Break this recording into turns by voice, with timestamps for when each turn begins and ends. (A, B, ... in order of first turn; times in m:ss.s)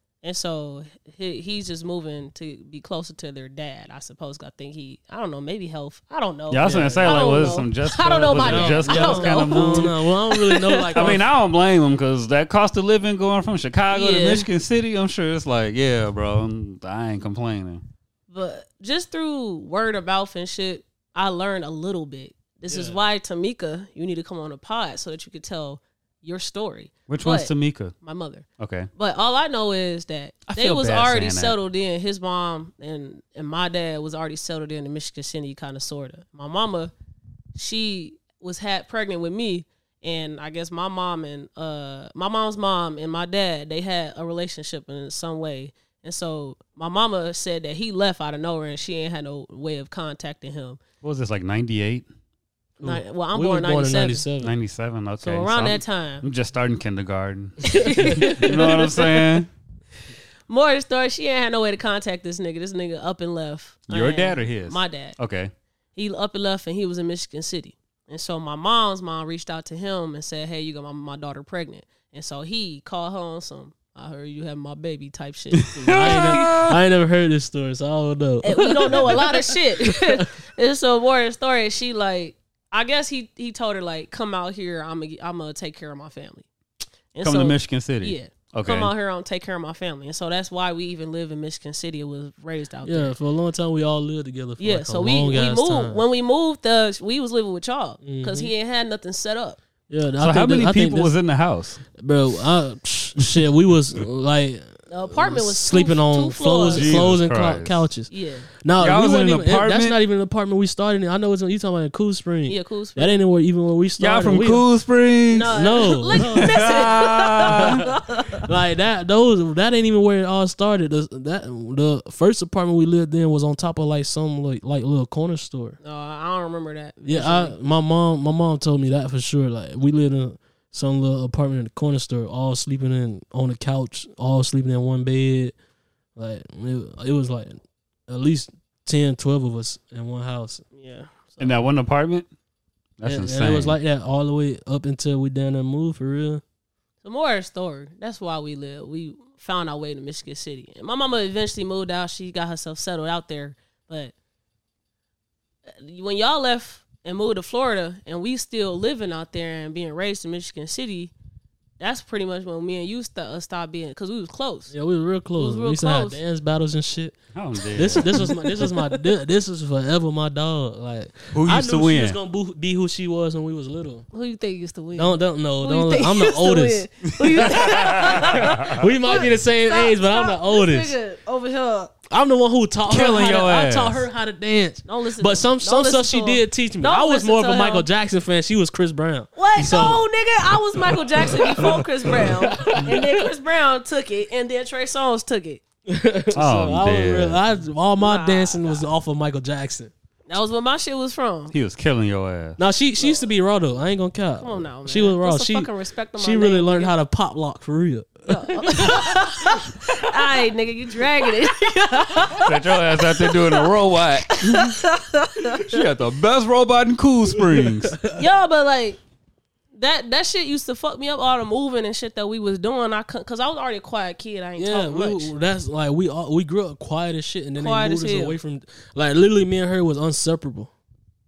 0:00.2-0:11.2 A
0:06.5-0:09.9 B
0:06.6-0:07.2 C
0:08.3-0:11.2 C
0:10.9-0:17.8 B
0:13.9-0:14.5 A
0:18.3-0:36.9 A
0:22.7-0:23.0 C
0:27.1-0:27.9 B
0:28.6-0:28.9 B
0:30.5-0:31.6 B
0:37.5-0:50.8 A
0:51.0-0:52.0 B
0:52.8-0:54.5 C
0:52.8-0:54.2 A
0:54.4-0:59.5 B
0:55.2-0:56.2 A
0:57.6-0:59.3 A
1:00.5-1:05.2 A
1:03.9-1:05.5 B
1:05.9-1:16.6 A
1:15.6-1:16.8 B
1:15.8-1:20.3 C
1:18.4-1:26.5 A
1:27.1-1:33.1 A
1:27.2-1:28.9 B
1:32.8-1:36.0 C
1:34.6-1:39.6 A
1:38.0-1:38.5 C
1:39.9-1:41.2 C
1:40.2-1:41.8 B
1:42.0-1:48.1 C
1:44.9-1:47.0 A
1:46.7-1:47.8 B
1:48.1-1:48.5 A
1:48.6-1:54.6 C
1:48.8-1:50.0 B
1:52.5-1:53.2 A
1:54.0-1:55.6 B
1:55.3-1:58.4 A
1:55.4-2:05.8 C
1:56.1-1:57.8 B
2:05.8-2:07.5 A
2:07.0-2:15.5 C
2:16.2-2:20.6 C
2:20.7-2:21.5 A
2:21.4-2:22.3 B
2:23.0-2:23.8 B
2:23.0-2:26.4 C
2:27.0-2:34.1 A
2:35.7-2:41.1 A
2:41.8-2:44.7 A
2:44.7-2:47.2 C
2:45.4-2:46.2 A
2:47.3-2:48.3 B
2:47.7-2:54.0 C
2:48.0-2:48.8 A
2:51.3-2:52.2 B
2:54.1-3:01.9 A
2:54.9-3:00.9 C
2:57.2-2:58.8 B
3:02.1-3:10.0 C
3:02.9-3:04.0 B
3:04.8-3:07.8 A
3:09.4-3:15.6 A
3:10.8-3:13.3 C
3:15.8-3:19.9 C
3:16.3-3:17.4 B
3:18.0-3:18.8 A
3:20.3-3:21.5 A
3:21.5-3:22.6 B
3:22.6-3:29.7 C
3:24.4-3:26.9 A
3:28.3-3:32.5 A
3:32.4-3:34.8 B
3:33.2-3:33.7 A
3:34.2-3:35.6 A
3:35.5-3:38.0 B
3:37.3-3:38.2 C
3:38.1-3:39.0 A
3:39.7-3:45.3 A
3:44.6-3:50.7 C
3:47.6-3:48.4 A